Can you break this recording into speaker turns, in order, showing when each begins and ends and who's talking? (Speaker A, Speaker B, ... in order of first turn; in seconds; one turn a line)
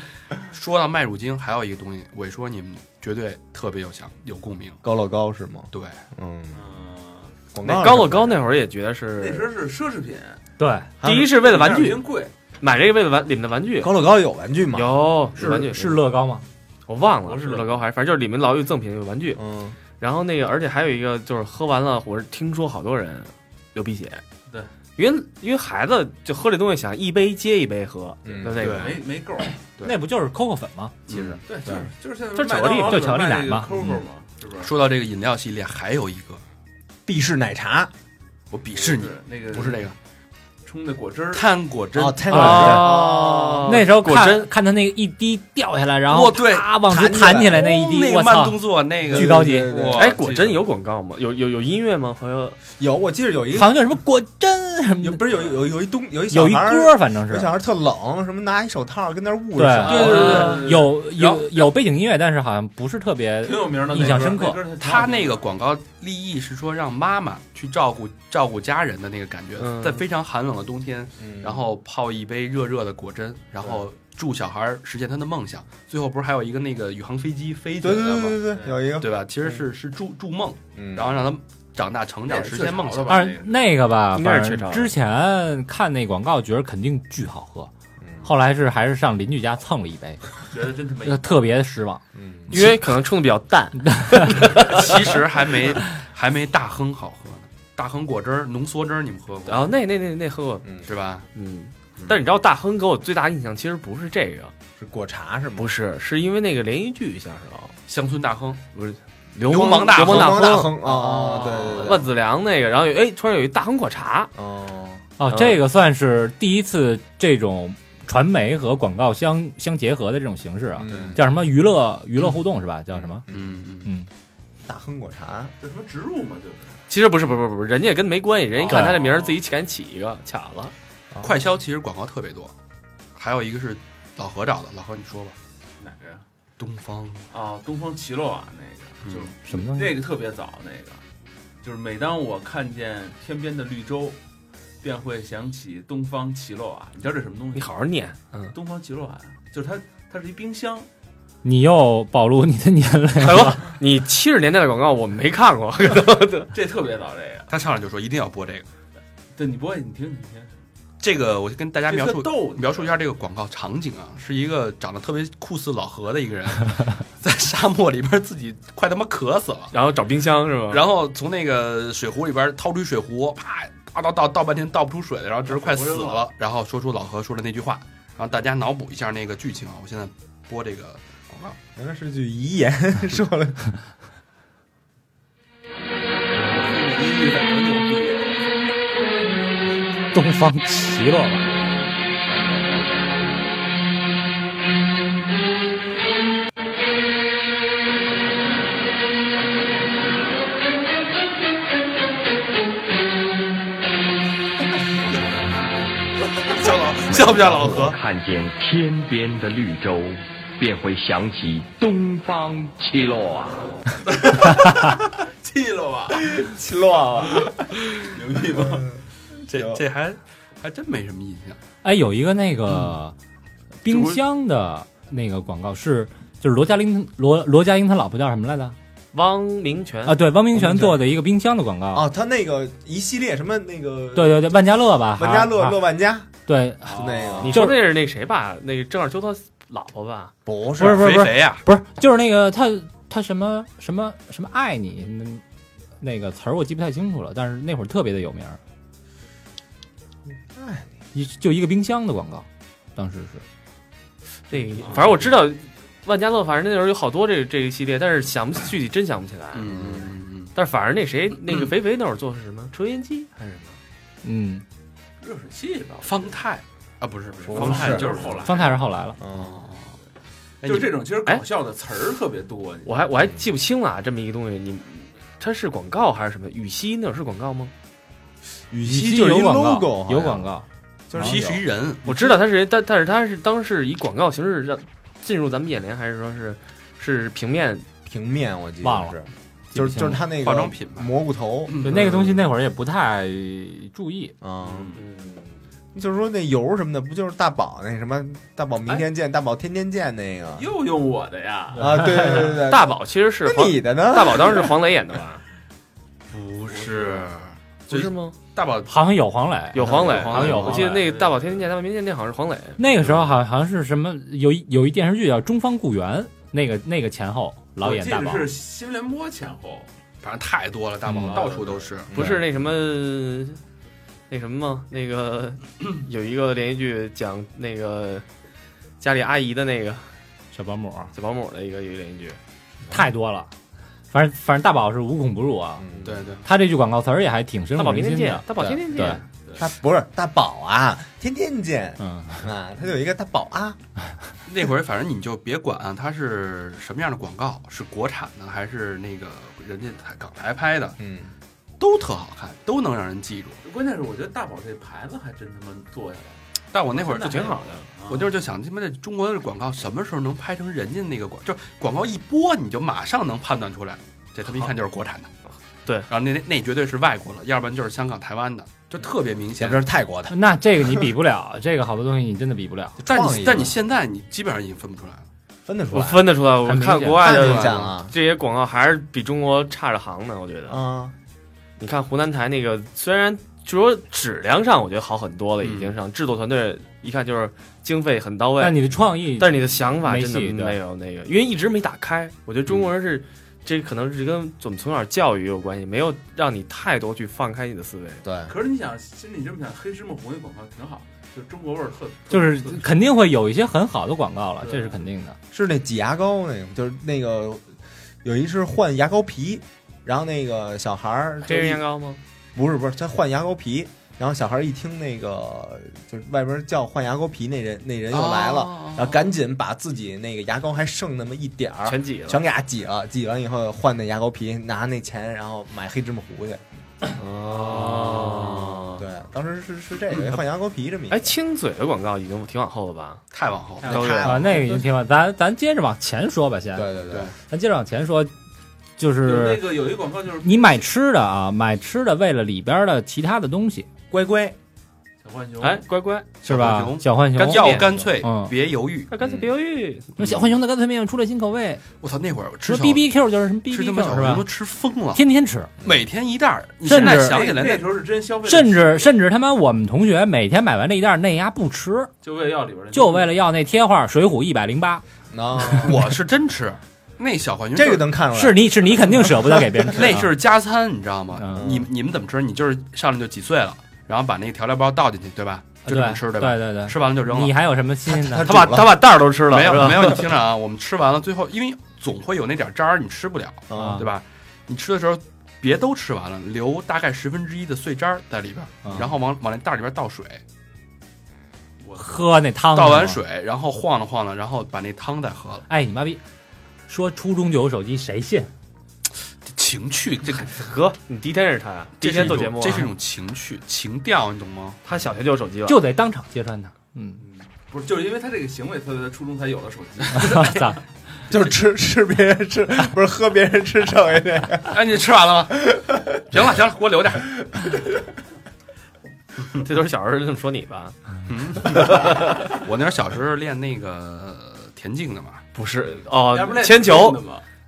Speaker A: 0.5-4.8
Speaker B: 4.8-6.6
Speaker A: 5.7-6.0
Speaker C: 6.5-7.3
Speaker B: 7.5-8.4
Speaker D: 7.6-9.5
Speaker C: 9.2-10.4
Speaker E: 10.6-10.9
Speaker B: 11.0-11.3
Speaker D: 11.0-12.0
Speaker C: 11.1-12.3
Speaker D: 12.6-14.0
Speaker B: 13.8-15.0
Speaker D: 14.7-16.0
Speaker E: 15.4-16.4
Speaker D: 16.9-19.4
Speaker C: 17.2-17.8
Speaker B: 19.4-19.8
Speaker D: 20.0-24.2
Speaker D: 25.0-28.9
Speaker B: 28.2-28.8
Speaker A: 28.6-29.0
Speaker C: 28.7-29.6
Speaker E: 29.8-31.0
Speaker A: 31.1-31.4
Speaker C: 31.5-34.7
Speaker D: 32.4-33.1
Speaker E: 32.8-33.7
Speaker A: 34.6-36.4
Speaker B: 37.1-37.9
Speaker A: 38.5-40.0
Speaker C: 38.8-39.9
Speaker C: 40.6-41.5
Speaker A: 41.3-42.7
Speaker B: 42.0-43.7
Speaker E: 42.3-43.0
Speaker D: 42.3-44.5
Speaker E: 43.7-49.8
Speaker A: 46.1-46.8
Speaker B: 46.9-47.7
Speaker A: 47.3-50.6
Speaker B: 49.1-50.2
Speaker D: 50.0-52.6
Speaker B: 52.8-53.8
Speaker E: 53.5-55.2
Speaker B: 55.0-60.5
Speaker E: 56.3-57.5
Speaker E: 59.6-64.6
Speaker C: 59.9-61.0
Speaker A: 59.9-60.6
Speaker A: 61.2-61.5
Speaker C: 63.4-65.5
Speaker A: 64.8-78.4
Speaker D: 69.6-70.0
Speaker B: 71.2-71.6
Speaker B: 77.8-79.1
Speaker C: 78.5-78.8
Speaker A: 79.0-83.3
Speaker B: 80.8-81.2
Speaker C: 82.3-83.8
Speaker E: 83.1-87.7
Speaker D: 84.1-84.9
Speaker B: 88.0-88.3
Speaker E: 88.2-90.3
Speaker C: 90.5-91.5
Speaker E: 91.0-92.0
Speaker B: 92.2-92.5
Speaker D: 92.5-95.0
Speaker E: 94.0-94.4
Speaker A: 94.6-99.7
Speaker D: 99.5-100.6
Speaker A: 100.8-101.3
Speaker D: 101.3-104.5
Speaker B: 104.8-105.7
Speaker D: 105.6-107.8
Speaker A: 107.9-108.6
Speaker D: 108.8-114.3
Speaker A: 109.5-110.5
Speaker B: 109.7-112.1
Speaker B: 114.3-115.0
Speaker E: 115.2-123.2
Speaker D: 115.3-115.6
Speaker B: 120.8-121.3
Speaker A: 123.3-123.9
Speaker B: 123.3-123.5
Speaker B: 124.7-125.5
Speaker C: 125.6-126.8
Speaker D: 126.9-130.7
Speaker C: 128.6-129.4
Speaker E: 128.7-129.0
Speaker A: 131.2-132.5
Speaker A: 133.2-135.4
Speaker C: 135.8-136.2
Speaker A: 136.6-137.2
Speaker C: 137.3-141.0
Speaker A: 139.1-139.3
Speaker E: 139.5-140.0
Speaker C: 141.6-144.2
Speaker C: 144.8-147.7
Speaker D: 147.6-148.3
Speaker C: 148.5-150.9
Speaker E: 151.4-153.7
Speaker D: 153.2-156.5
Speaker C: 156.5-157.5
Speaker A: 157.5-158.7
Speaker C: 159.3-160.5
Speaker A: 161.0-169.7
Speaker C: 161.9-162.9
Speaker D: 169.7-170.8
Speaker A: 170.7-181.6
Speaker C: 175.5-176.3
Speaker B: 181.8-183.7
Speaker C: 186.3-188.5
Speaker E: 190.1-191.5
Speaker A: 206.5-208.0
Speaker F: 207.1-213.7
Speaker C: 214.1-216.6
Speaker B: 216.2-217.7
Speaker C: 217.3-218.9
Speaker B: 218.4-219.0
Speaker A: 219.5-221.6
Speaker B: 219.5-219.8
Speaker E: 221.8-223.2
Speaker E: 223.8-228.8
Speaker D: 229.1-230.2
Speaker E: 230.1-232.1
Speaker B: 230.5-231.0
Speaker B: 231.9-234.6
Speaker E: 234.2-235.8
Speaker B: 235.2-236.3
Speaker E: 236.5-237.8
Speaker B: 236.9-237.6
Speaker C: 236.9-237.6
Speaker D: 237.4-240.3
Speaker B: 240.5-241.2
Speaker E: 240.8-245.4
Speaker A: 240.8-241.6
Speaker E: 246.0-248.6
Speaker B: 250.5-250.9
Speaker E: 251.1-253.4
Speaker D: 254.5-259.7
Speaker A: 259.5-260.5
Speaker B: 259.7-260.1
Speaker D: 260.6-263.7
Speaker E: 264.2-264.6
Speaker C: 265.2-266.4
Speaker A: 266.0-268.5
Speaker C: 267.4-268.9
Speaker B: 267.5-268.2
Speaker E: 268.4-269.2
Speaker B: 269.2-269.6
Speaker A: 269.3-270.0
Speaker A: 270.6-271.0
Speaker C: 270.6-273.0
Speaker D: 272.9-277.7
Speaker B: 278.7-280.5
Speaker E: 278.8-280.6
Speaker B: 281.1-281.6
Speaker A: 281.1-282.0
Speaker D: 282.1-287.9
Speaker B: 288.1-292.0
Speaker E: 288.8-289.2
Speaker E: 289.7-290.2
Speaker A: 290.4-292.4
Speaker E: 291.8-294.4
Speaker B: 294.4-294.9
Speaker C: 294.6-295.1
Speaker D: 295.0-295.5
Speaker B: 295.9-300.7
Speaker C: 300.6-302.5
Speaker B: 301.8-304.7
Speaker E: 301.8-302.3
Speaker D: 302.5-305.4
Speaker A: 306.3-308.9
Speaker C: 306.7-307.3
Speaker D: 307.9-308.4
Speaker E: 308.9-311.0
Speaker D: 309.7-312.9
Speaker B: 309.8-310.2
Speaker C: 309.9-311.6
Speaker A: 310.5-310.9
Speaker E: 312.8-318.5
Speaker C: 317.8-319.9
Speaker A: 320.2-322.1
Speaker E: 321.1-321.5
Speaker C: 321.2-321.9
Speaker B: 322.1-322.5
Speaker D: 322.1-323.6
Speaker D: 324.3-328.2
Speaker D: 329.0-330.1
Speaker E: 330.5-331.1
Speaker D: 331.1-332.4
Speaker E: 332.9-333.5
Speaker E: 334.1-335.9
Speaker B: 335.8-336.2
Speaker A: 336.0-336.4
Speaker E: 336.4-339.2
Speaker D: 337.8-339.2
Speaker C: 338.9-339.7
Speaker B: 339.6-343.8
Speaker E: 342.0-342.4
Speaker A: 344.5-351.0
Speaker B: 351.0-351.3
Speaker A: 351.8-353.6
Speaker C: 353.6-358.3
Speaker A: 356.7-357.6
Speaker D: 357.1-357.8
Speaker A: 358.1-365.3
Speaker A: 366.1-369.9
Speaker B: 369.6-371.1
Speaker E: 370.3-373.0
Speaker B: 373.0-373.8
Speaker A: 373.1-375.3
Speaker B: 375.7-376.4
Speaker D: 375.9-380.8
Speaker E: 376.6-377.4
Speaker B: 377.2-378.1
Speaker A: 377.3-377.9
Speaker B: 380.7-381.1
Speaker D: 381.8-388.8
Speaker A: 385.6-385.9
Speaker E: 388.6-390.8
Speaker D: 389.4-398.2
Speaker B: 398.2-398.5
Speaker C: 398.5-402.9
Speaker E: 402.3-405.4
Speaker C: 404.6-405.0
Speaker B: 405.5-407.7
Speaker B: 408.2-411.8
Speaker D: 411.4-412.2
Speaker B: 412.6-426.6
Speaker A: 418.1-419.2
Speaker D: 421.9-422.4
Speaker B: 427.1-431.3
Speaker D: 427.5-429.0
Speaker D: 431.1-433.2
Speaker A: 433.3-434.1
Speaker B: 433.8-434.9
Speaker E: 433.8-436.9
Speaker D: 433.9-434.4
Speaker B: 436.8-437.3
Speaker E: 437.4-438.3
Speaker E: 439.0-439.7
Speaker C: 439.2-440.9
Speaker E: 440.4-443.9
Speaker B: 444.1-444.6
Speaker C: 445.2-445.9
Speaker D: 445.6-446.3
Speaker E: 446.4-448.6
Speaker A: 446.5-449.1
Speaker D: 447.4-448.0
Speaker D: 449.1-450.1
Speaker B: 449.2-449.5
Speaker E: 450.2-451.8
Speaker A: 450.2-450.5
Speaker A: 452.0-453.0
Speaker E: 452.6-454.5
Speaker A: 453.7-455.2
Speaker E: 455.1-455.7
Speaker A: 455.8-457.9
Speaker E: 456.8-457.5
Speaker C: 456.9-459.1
Speaker E: 458.4-462.1
Speaker C: 462.2-463.4
Speaker E: 462.9-465.0
Speaker B: 465.3-466.0
Speaker A: 465.8-468.1
Speaker B: 467.8-469.8
Speaker E: 468.3-470.3
Speaker A: 469.9-477.6
Speaker E: 471.4-471.7
Speaker B: 471.5-471.9
Speaker E: 475.8-478.6
Speaker B: 478.1-479.0
Speaker D: 478.4-480.2
Speaker A: 479.5-490.4
Speaker B: 483.7-484.0
Speaker E: 483.8-484.1
Speaker C: 491.8-492.3
Speaker E: 492.0-493.2
Speaker A: 492.7-495.7
Speaker E: 495.7-496.2
Speaker E: 496.9-498.5
Speaker A: 499.5-500.7
Speaker D: 500.5-502.9
Speaker A: 502.0-504.8
Speaker D: 504.9-505.8
Speaker E: 505.7-507.2
Speaker C: 507.2-510.8
Speaker E: 510.2-510.8
Speaker B: 511.3-514.8
Speaker A: 514.7-517.4
Speaker B: 515.5-516.5
Speaker D: 519.6-521.0
Speaker A: 521.3-525.4
Speaker D: 521.6-522.4
Speaker D: 525.5-527.2
Speaker C: 526.1-527.4